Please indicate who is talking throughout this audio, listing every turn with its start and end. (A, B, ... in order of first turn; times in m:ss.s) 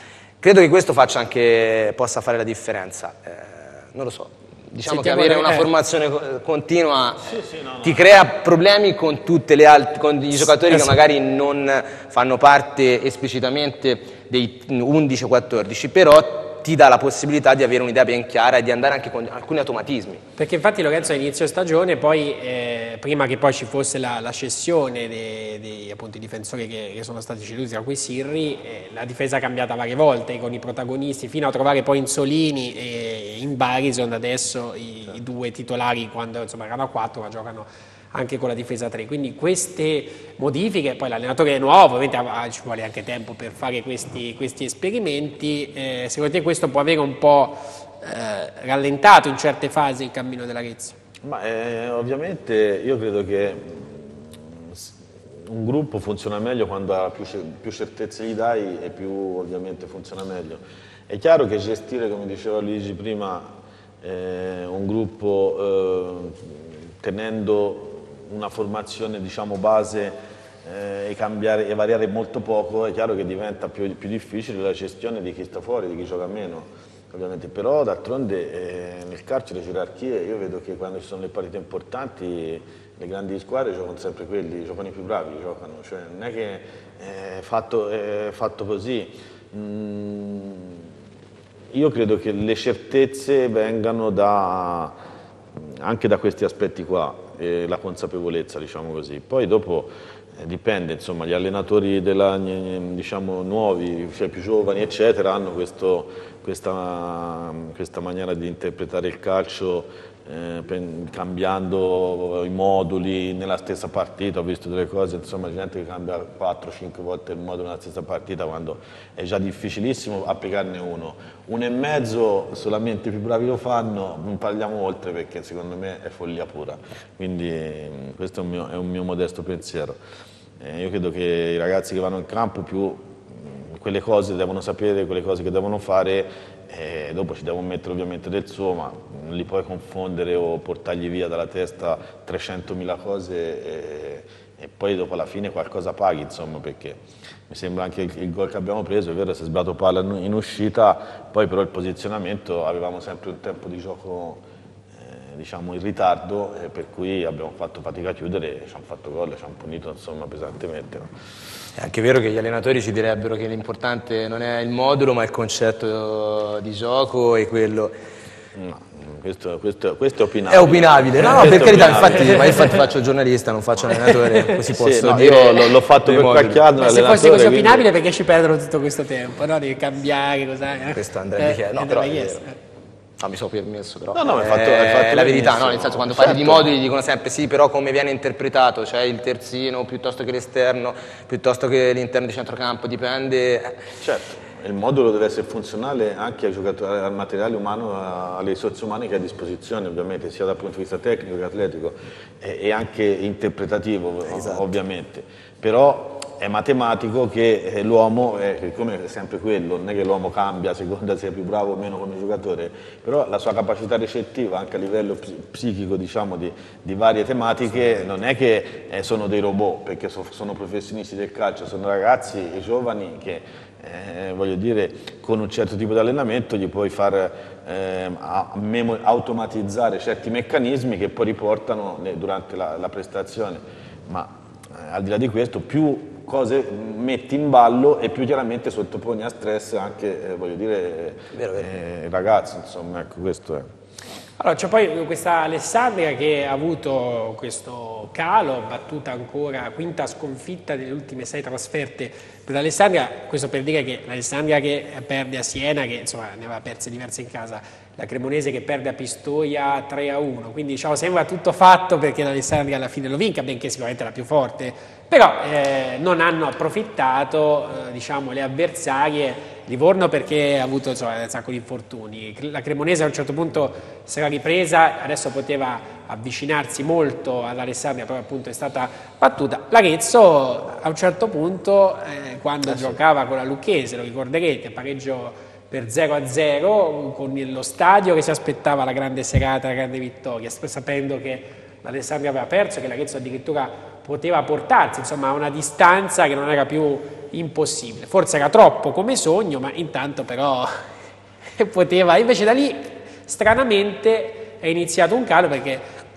0:00.4-0:20.2 A
0:04.8-0:05.7 B
0:07.2-0:08.0 C
0:10.7-0:10.9 B
0:20.4-0:50.9 B
0:51.2-1:30.8 C
1:31.7-1:35.0 C
1:35.5-2:10.0 C
2:10.6-2:34.4 C
2:34.9-2:41.1 C
2:41.8-2:47.9 A
2:48.5-2:52.6 C
2:50.5-2:56.6 A
2:54.3-2:54.6 B
2:54.7-2:57.8 C
2:56.8-3:02.6 B
3:00.9-3:02.4 A
3:03.2-3:13.9 A
3:04.1-3:06.7 C
3:14.0-4:03.7 C
3:24.3-3:24.7 A
4:01.3-4:01.7 A
4:04.4-5:00.7 B
4:42.7-4:43.0 A
5:01.6-5:05.9 B